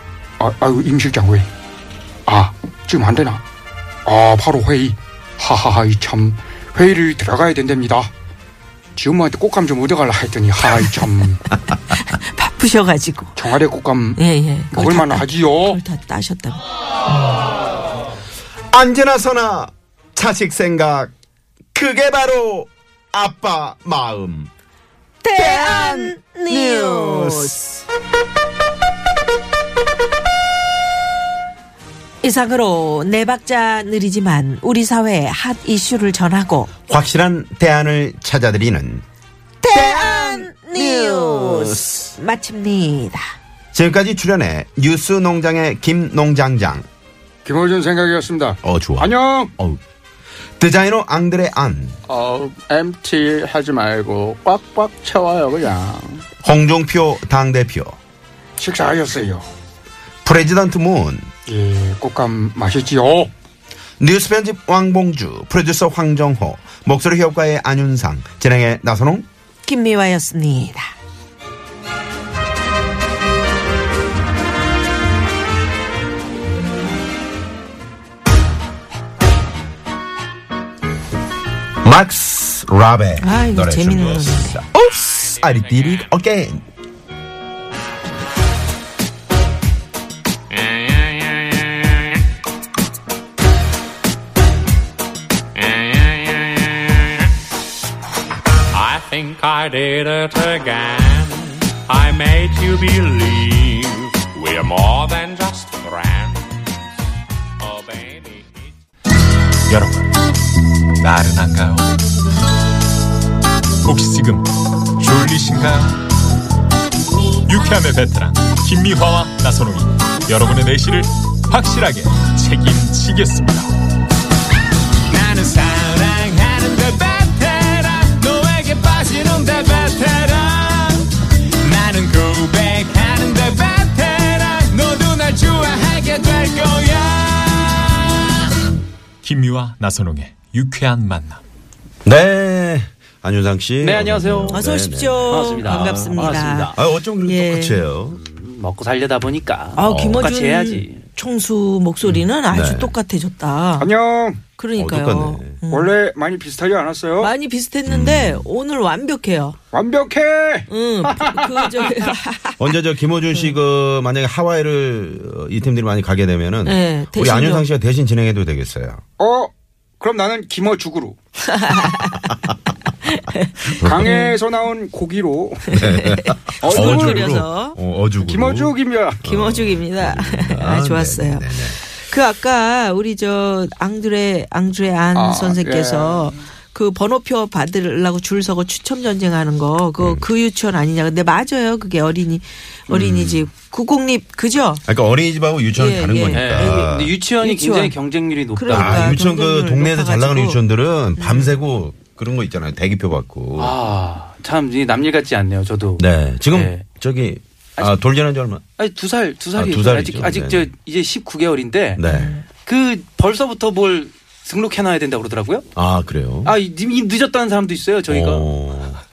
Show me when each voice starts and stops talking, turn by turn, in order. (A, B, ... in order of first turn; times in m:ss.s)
0:00.4-0:01.5 A
0:02.3-0:03.4 A
0:04.0-0:08.1 A
0:09.0-0:11.4 A
0:11.9-0:13.4 B
0:13.4-0:14.2 A
0:14.2-0:16.6 B
0:14.7-0:15.8 A
0:18.7-0:21.1 C
0:21.7-0:24.5 C
0:25.2-0:27.6 B
0:25.4-0:27.6 C
0:32.2-0:36.7 B
0:36.9-0:39.0 C
0:39.6-0:43.2 B
0:39.7-0:42.1 C
0:43.7-0:46.8 C
0:47.4-0:49.5 A
0:48.6-0:49.8 C
0:50.6-0:52.0 C
0:52.1-0:56.2 D
0:56.4-0:58.0 C
0:58.6-0:59.4 A
1:00.2-1:01.3 C
1:01.4-1:03.3 A
1:04.0-1:09.2 C
1:09.6-1:10.9 B
1:21.8-1:26.6 C
1:23.2-1:24.6 B
1:35.6-1:36.7 E
1:38.7-1:46.4 E
1:47.6-1:48.4 E
1:49.7-1:50.1 F
1:51.0-1:51.9 F
1:53.8-1:56.0 F
1:57.4-2:03.7 F
2:05.1-2:18.4 F
2:19.2-2:21.4 F
2:22.0-2:26.2 C
2:23.8-2:24.6 D
2:24.5-2:27.8 B
2:25.3-2:26.8 D
2:26.7-2:28.2 C
2:28.1-2:31.0 D
2:29.8-2:33.9 B
2:29.8-2:30.3 C
2:32.5-2:32.9 C
2:33.8-2:34.4 A
2:34.6-2:35.9 B
2:34.8-2:35.6 C
2:35.7-2:37.3 A
2:37.2-2:39.6 B
2:37.9-2:38.5 C
2:39.7-2:42.1 A
2:40.7-2:42.7 B
2:42.6-2:49.0 C
2:46.6-2:47.7 B
2:49.2-2:51.2 A
2:51.4-2:52.4 B
2:53.0-2:54.3 B
2:53.8-2:54.2 C
2:53.8-2:55.7 A
2:55.7-2:57.8 B
2:55.7-3:01.8 C
2:56.6-2:57.3 A
2:58.2-2:59.2 A
2:59.2-3:14.8 B
3:05.1-3:06.3 A
3:10.0-3:10.2 C
3:12.9-3:13.5 C
3:14.9-3:17.1 C
3:15.7-3:16.9 B
3:16.3-3:19.2 D
3:17.4-3:18.0 B
3:18.5-3:20.6 B
3:18.7-3:23.8 C
3:21.2-3:21.6 B
3:23.6-3:26.8 D
3:26.0-3:28.6 C
3:28.8-3:32.0 D
3:29.5-3:30.7 C
3:32.0-3:32.4 C
3:32.0-3:32.4 B
3:32.6-3:35.6 D
3:35.7-3:36.5 C
3:36.4-3:38.6 D
3:38.1-3:39.0 C